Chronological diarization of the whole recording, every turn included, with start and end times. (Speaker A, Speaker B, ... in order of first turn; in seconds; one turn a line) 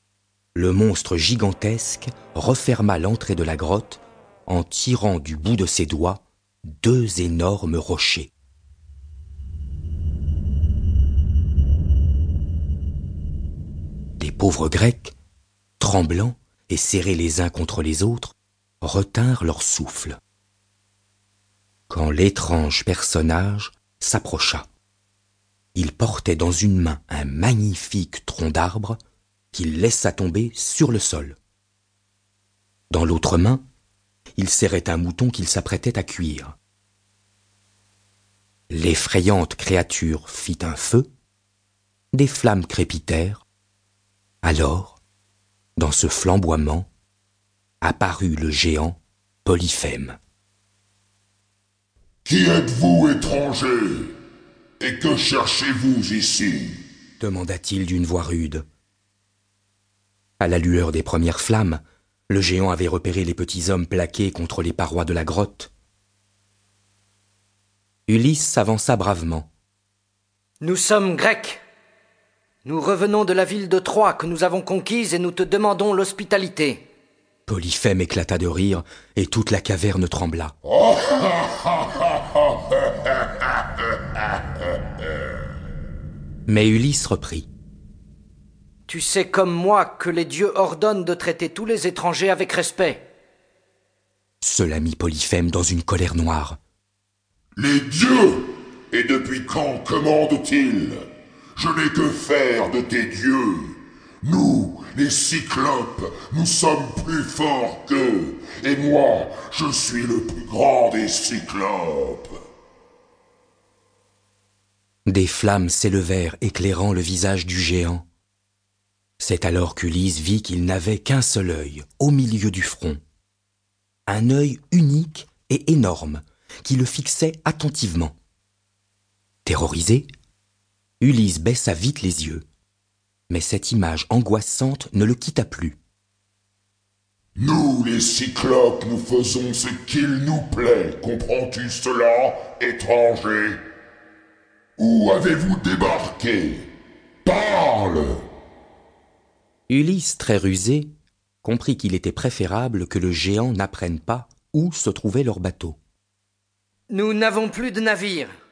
Speaker A: 0.5-8.3
Speaker A: 14.2-15.1
Speaker A: 15.8-20.2
Speaker A: 21.9-24.7
Speaker A: 25.7-29.0
Speaker A: 29.5-31.4
Speaker A: 32.9-33.6
Speaker A: 34.4-36.5
Speaker A: 38.7-41.1
Speaker A: 42.1-43.4
Speaker A: 44.4-45.0
Speaker A: 45.8-46.9
Speaker A: 47.8-50.2
Speaker B: 52.2-54.1
Speaker B: 54.8-56.8
Speaker A: 57.2-58.6
Speaker A: 60.4-65.7
Speaker A: 68.1-69.5
Speaker C: 70.6-71.6
Speaker C: 72.6-76.8
Speaker A: 77.5-80.5
Speaker B: 80.7-83.3
Speaker A: 86.5-87.5
Speaker C: 88.9-93.0
Speaker A: 94.4-96.6
Speaker B: 97.5-101.0
Speaker B: 101.6-112.4
Speaker A: 115.1-118.0
Speaker A: 119.2-123.0
Speaker A: 124.1-128.1
Speaker A: 129.4-130.1
Speaker A: 131.0-132.4
Speaker A: 133.3-135.8
Speaker B: 137.4-143.6
Speaker B: 144.8-146.7
Speaker B: 147.2-148.2
Speaker A: 149.7-150.9
Speaker A: 151.4-155.8
Speaker C: 156.9-158.3